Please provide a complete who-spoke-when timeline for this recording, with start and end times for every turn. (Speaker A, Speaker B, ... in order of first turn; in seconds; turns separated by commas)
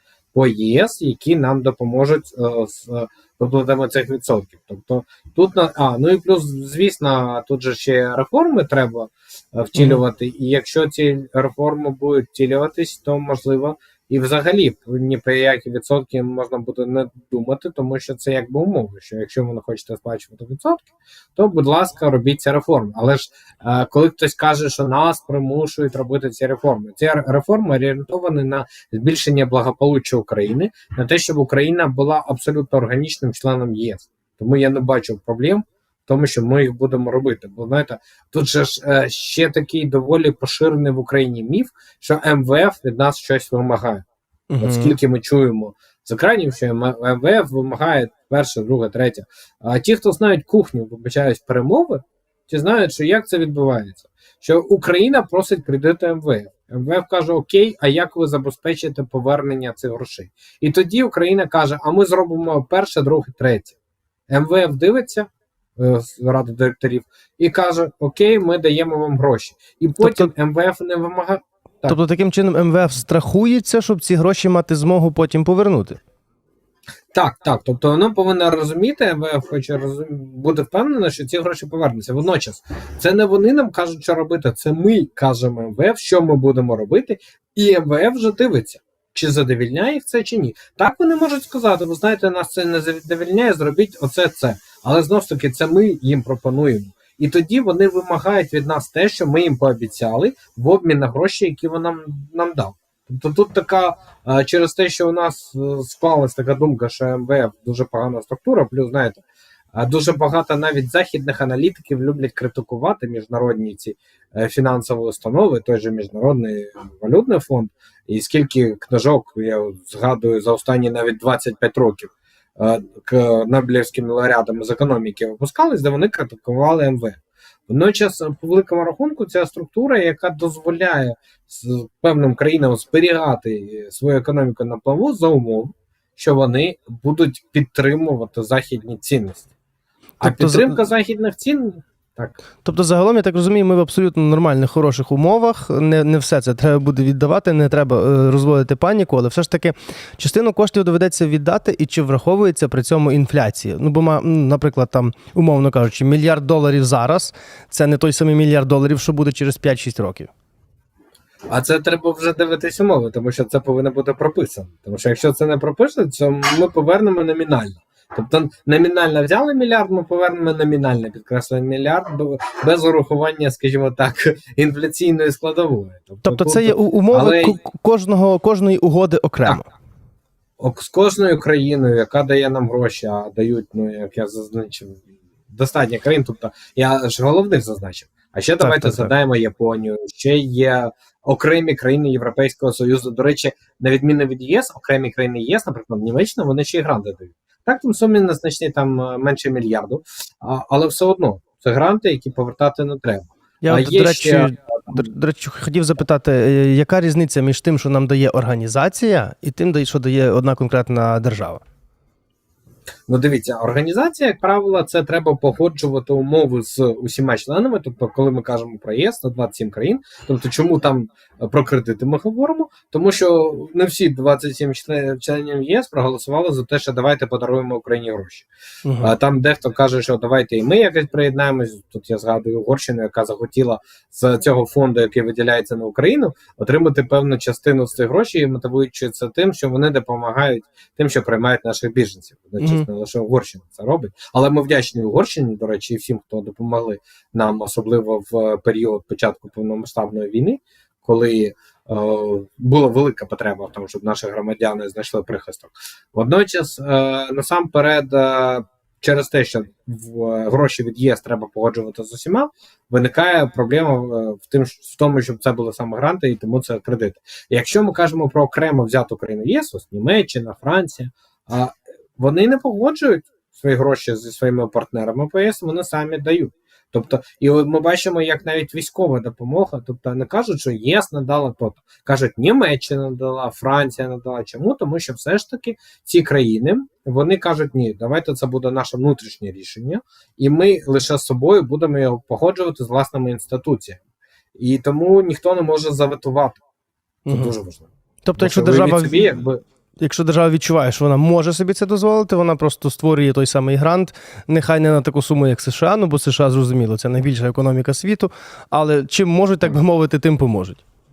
Speaker A: 0.3-44.0, Speaker B: 9.7-10.0, Speaker B: 44.5-45.0, Speaker A: 44.6-63.8, Speaker A: 64.3-72.0, Speaker B: 70.0-70.3, Speaker B: 71.9-76.0, Speaker A: 77.1-109.2, Speaker A: 109.7-139.5, Speaker B: 140.2-140.8, Speaker A: 140.2-142.3, Speaker B: 142.6-160.3, Speaker A: 161.5-177.6, Speaker B: 176.2-179.7, Speaker A: 180.6-185.0, Speaker A: 185.5-205.0, Speaker B: 188.6-189.1, Speaker B: 203.6-211.6, Speaker A: 213.1-228.5, Speaker B: 228.8-229.1, Speaker A: 229.0-294.0, Speaker B: 242.6-242.9, Speaker A: 294.6-296.6, Speaker B: 297.2-297.5, Speaker A: 297.3-299.6, Speaker B: 298.2-299.2, Speaker B: 300.0-310.8